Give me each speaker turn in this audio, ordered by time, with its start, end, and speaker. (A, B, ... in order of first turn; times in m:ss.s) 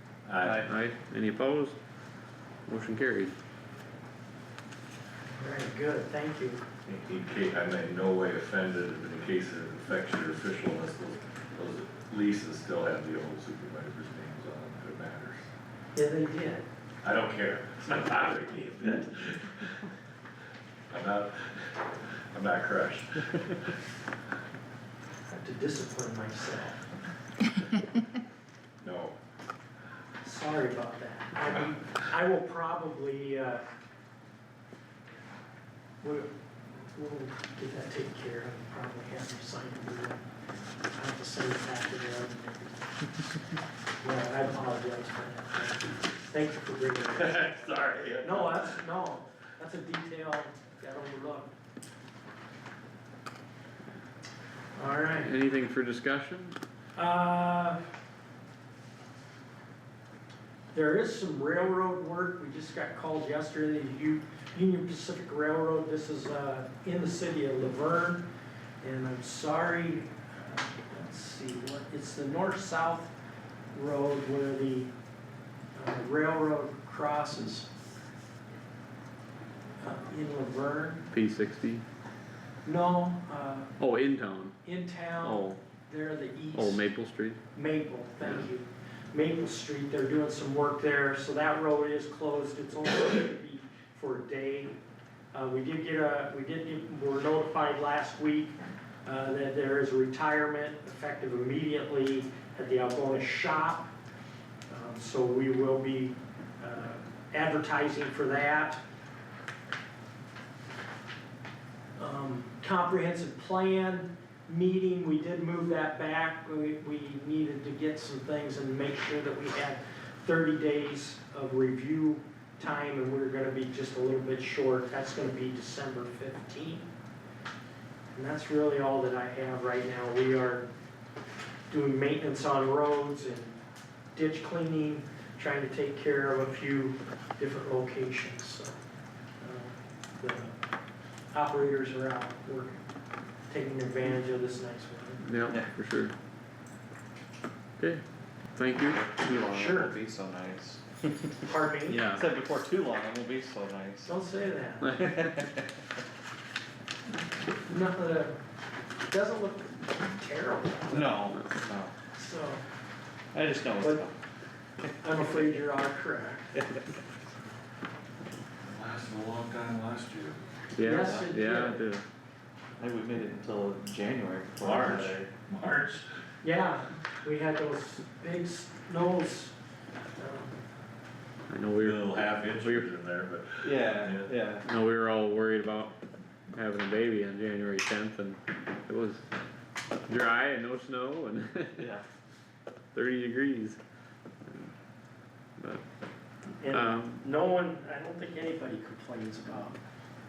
0:00.2-0:00.6 A
0:00.4-0:00.7 B
0:00.6-0:01.8 C
0:02.6-0:03.3 C
0:05.4-0:06.6 D
0:06.8-0:15.4 A
0:15.9-0:16.6 D
0:17.0-0:19.8 A
0:20.9-0:23.7 A
0:25.3-0:26.8 D
0:28.8-0:29.2 A
0:30.2-0:33.6 D
0:36.0-0:36.3 D
0:36.9-0:40.2 D
0:40.9-0:43.1 D
0:44.0-0:47.5 D
0:47.1-0:48.8 A
0:48.2-0:51.5 D
0:54.7-0:55.3 D
0:55.2-0:56.6 C
0:57.0-0:57.8 D
1:00.7-1:08.2 D
1:08.8-1:13.1 D
1:13.7-1:14.9 D
1:15.7-1:17.7 D
1:19.8-1:21.1 D
1:21.1-1:21.8 C
1:22.6-1:23.7 D
1:23.8-1:24.6 C
1:24.6-1:26.9 D
1:25.2-1:25.6 C
1:26.5-1:27.4 C
1:27.5-1:34.8 D
1:35.3-1:43.9 D
1:44.7-1:48.8 D
1:52.0-2:06.8 D
2:08.1-2:10.6 D
2:11.7-2:13.6 D
2:14.1-2:18.8 D
2:19.4-2:20.5 D
2:21.3-2:22.8 D
2:23.5-2:25.2 D
2:25.2-2:26.1 C
2:27.8-2:28.0 C
2:28.5-2:29.1 C
2:29.0-2:34.1 B
2:29.4-2:29.9 D
2:31.4-2:32.0 D
2:31.9-2:32.2 C
2:34.0-2:35.0 D
2:34.9-2:35.7 B
2:37.6-2:38.4 D
2:39.1-2:41.3 D
2:40.9-2:41.9 B
2:42.1-2:42.6 D
2:43.3-2:44.1 B
2:43.8-2:44.0 D
2:44.8-2:45.5 B
2:45.0-2:46.6 D
2:48.6-2:50.4 A
2:50.7-2:52.0 C
2:50.8-2:51.8 D
2:50.9-2:51.3 B
2:52.8-2:55.3 B
2:54.6-2:56.1 A
2:56.4-2:59.5 D
3:00.2-3:00.6 D
3:01.5-3:02.8 C
3:01.8-3:04.3 A
3:03.6-3:04.6 B
3:04.6-3:06.0 C
3:06.5-3:09.2 C
3:10.1-3:11.8 C
3:11.8-3:12.0 B
3:12.9-3:13.8 C
3:14.5-3:14.7 C
3:15.6-3:15.8 C
3:16.6-3:19.8 D
3:16.7-3:17.2 C